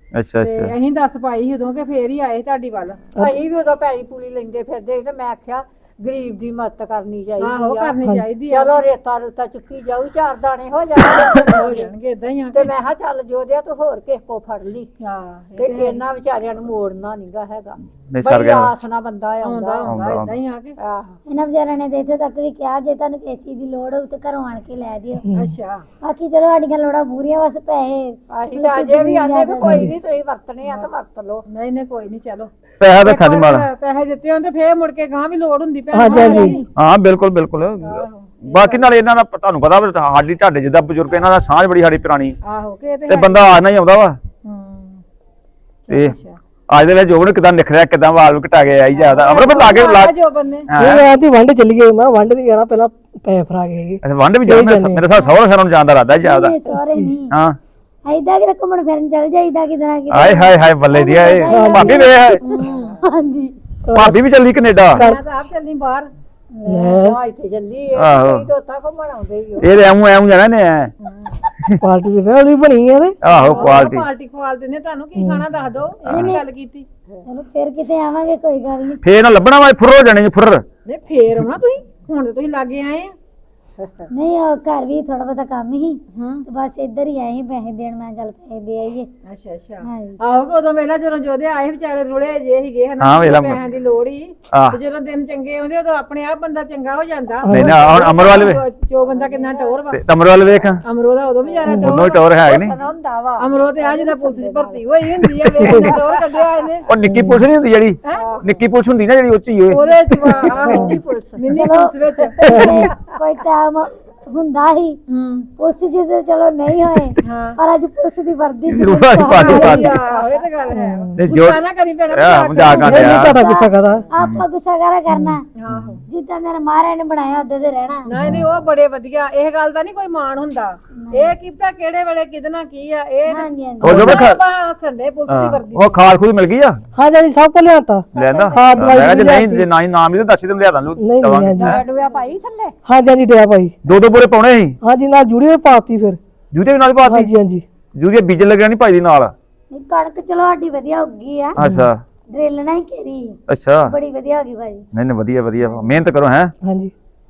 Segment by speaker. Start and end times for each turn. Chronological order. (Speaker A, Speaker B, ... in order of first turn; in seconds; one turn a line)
Speaker A: 0.1-0.7
Speaker B: 0.4-3.0
Speaker C: 3.1-8.0
Speaker B: 7.4-8.8
Speaker D: 8.0-8.3
Speaker C: 8.5-11.9
Speaker B: 11.3-12.7
Speaker C: 12.5-15.0
Speaker B: 15.0-16.0
Speaker C: 15.6-19.9
Speaker A: 18.1-18.8
Speaker B: 19.4-20.8
Speaker A: 19.9-20.3
Speaker C: 20.8-21.2
Speaker E: 21.2-25.2
Speaker D: 25.2-25.5
Speaker B: 25.3-25.9
Speaker E: 26.0-29.9
Speaker C: 28.3-31.4
Speaker D: 29.6-29.9
Speaker B: 31.5-32.5
Speaker A: 32.8-33.7
Speaker B: 33.0-36.6
Speaker D: 35.9-36.6
Speaker E: 36.0-36.6
Speaker A: 36.7-42.4
Speaker B: 37.8-38.9
Speaker B: 42.4-43.5
Speaker A: 43.1-44.2
Speaker B: 44.4-45.0
Speaker B: 45.9-46.4
Speaker A: 45.9-46.1
Speaker A: 46.7-50.1
Speaker B: 49.0-50.7
Speaker A: 50.7-51.1
Speaker D: 50.8-55.0
Speaker A: 54.0-56.5
Speaker E: 56.2-57.3
Speaker D: 56.7-57.1
Speaker A: 57.3-57.6
Speaker E: 58.0-63.6
Speaker A: 60.1-62.4
Speaker D: 61.5-62.2
Speaker B: 62.4-62.9
Speaker C: 62.7-63.0
Speaker D: 63.9-64.1
Speaker A: 63.9-65.0
Speaker D: 64.9-65.2
Speaker B: 64.9-66.1
Speaker E: 66.5-67.0
Speaker D: 66.7-67.2
Speaker C: 66.8-69.7
Speaker A: 68.0-68.5
Speaker A: 69.6-70.9
Speaker D: 71.8-73.2
Speaker A: 73.2-74.1
Speaker B: 73.2-76.9
Speaker C: 73.5-73.7
Speaker D: 75.2-75.4
Speaker A: 76.1-76.4
Speaker E: 76.1-76.4
Speaker E: 77.2-79.0
Speaker A: 79.0-80.6
Speaker B: 80.8-83.1
Speaker C: 83.8-84.1
Speaker E: 84.1-89.1
Speaker B: 86.1-86.4
Speaker B: 89.2-100.0
Speaker E: 89.8-90.2
Speaker A: 93.0-93.6
Speaker A: 94.5-94.8
Speaker D: 97.4-97.8
Speaker A: 97.5-98.6
Speaker C: 99.0-99.8
Speaker A: 99.9-100.8
Speaker B: 100.8-102.2
Speaker C: 101.4-106.3
Speaker A: 101.8-102.7
Speaker B: 103.4-106.9
Speaker D: 105.6-105.9
Speaker A: 106.9-110.5
Speaker D: 107.0-107.4
Speaker B: 108.0-108.4
Speaker C: 108.1-108.6
Speaker B: 109.7-112.5
Speaker C: 109.8-111.5
Speaker D: 110.7-111.0
Speaker E: 111.5-115.0
Speaker D: 112.5-112.8
Speaker C: 112.5-113.0
Speaker B: 115.1-115.5
Speaker E: 115.6-120.0
Speaker B: 117.2-117.6
Speaker A: 118.7-120.0
Speaker B: 119.2-123.3
Speaker C: 120.1-120.4
Speaker D: 120.7-121.3
Speaker A: 121.2-123.4
Speaker E: 122.6-125.4
Speaker D: 122.7-124.0
Speaker A: 124.2-124.5
Speaker D: 125.1-125.4
Speaker B: 125.5-126.0
Speaker A: 125.7-126.0
Speaker E: 126.0-128.1
Speaker B: 128.1-136.0
Speaker D: 128.2-128.5
Speaker E: 130.9-131.3
Speaker E: 133.3-134.3
Speaker A: 133.8-134.4
Speaker A: 135.3-136.8
Speaker D: 136.9-139.7
Speaker E: 138.1-139.1
Speaker A: 138.1-141.8
Speaker D: 141.0-141.8
Speaker C: 141.5-142.7
Speaker D: 142.8-143.8
Speaker A: 143.8-144.8
Speaker D: 144.8-146.2
Speaker A: 146.5-147.3
Speaker D: 147.1-147.6
Speaker A: 147.9-149.3
Speaker E: 149.7-151.6
Speaker A: 151.6-152.0
Speaker D: 151.6-151.9
Speaker E: 152.3-154.8
Speaker A: 153.5-153.9
Speaker A: 154.9-156.5
Speaker D: 156.6-156.9